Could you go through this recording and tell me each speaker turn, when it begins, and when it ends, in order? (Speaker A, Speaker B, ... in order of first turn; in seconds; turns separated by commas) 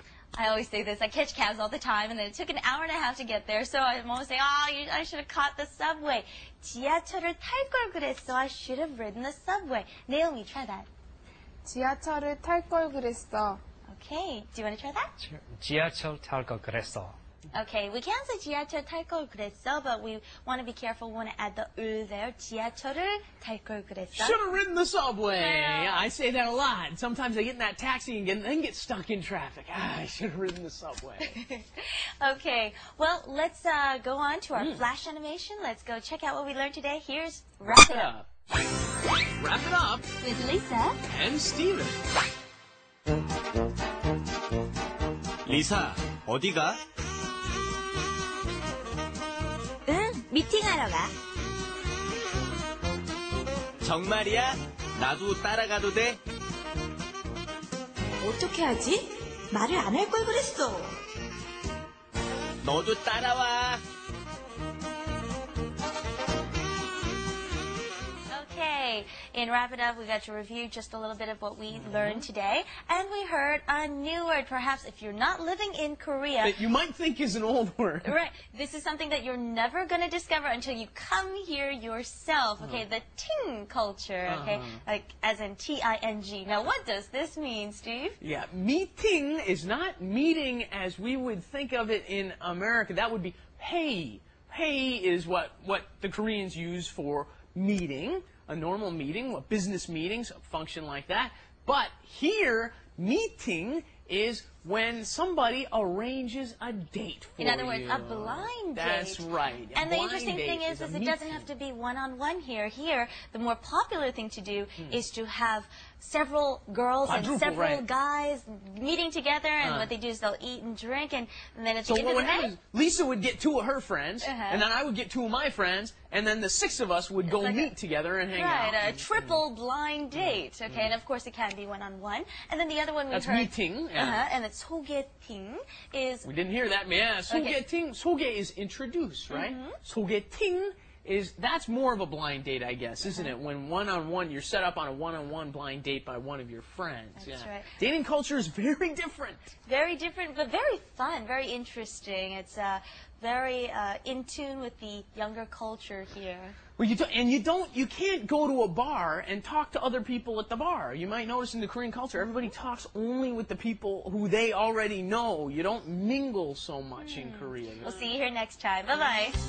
Speaker A: 0.3-10.9, Speaker B: 11.7-13.6, Speaker A: 13.9-15.1, Speaker C: 15.2-17.1, Speaker A: 17.5-24.4, Speaker D: 24.1-31.4, Speaker A: 25.3-26.1, Speaker A: 31.2-38.1, Speaker D: 34.5-34.9, Speaker D: 37.6-38.3, Speaker D: 39.4-40.1, Speaker A: 40.2-41.0, Speaker D: 41.0-42.0, Speaker E: 45.5-46.8, Speaker F: 49.9-51.1, Speaker E: 53.8-56.2, Speaker F: 58.2-60.9, Speaker E: 62.6-63.8, Speaker A: 68.3-76.6, Speaker D: 71.7-72.3, Speaker D: 76.4-78.2, Speaker A: 78.0-88.2, Speaker D: 82.6-82.8, Speaker D: 84.2-84.8, Speaker D: 88.2-111.5, Speaker A: 107.4-122.5, Speaker D: 117.0-117.8, Speaker D: 119.6-119.9, Speaker D: 121.8-129.4, Speaker A: 124.2-124.7, Speaker A: 127.2-127.7, Speaker A: 128.3-136.3, Speaker D: 130.1-130.9, Speaker D: 133.1-134.3, Speaker D: 136.2-149.4, Speaker A: 137.3-137.6, Speaker A: 139.3-139.8, Speaker A: 143.0-143.3, Speaker A: 147.2-147.7, Speaker A: 149.7-156.6, Speaker D: 156.8-168.2, Speaker A: 167.0-169.4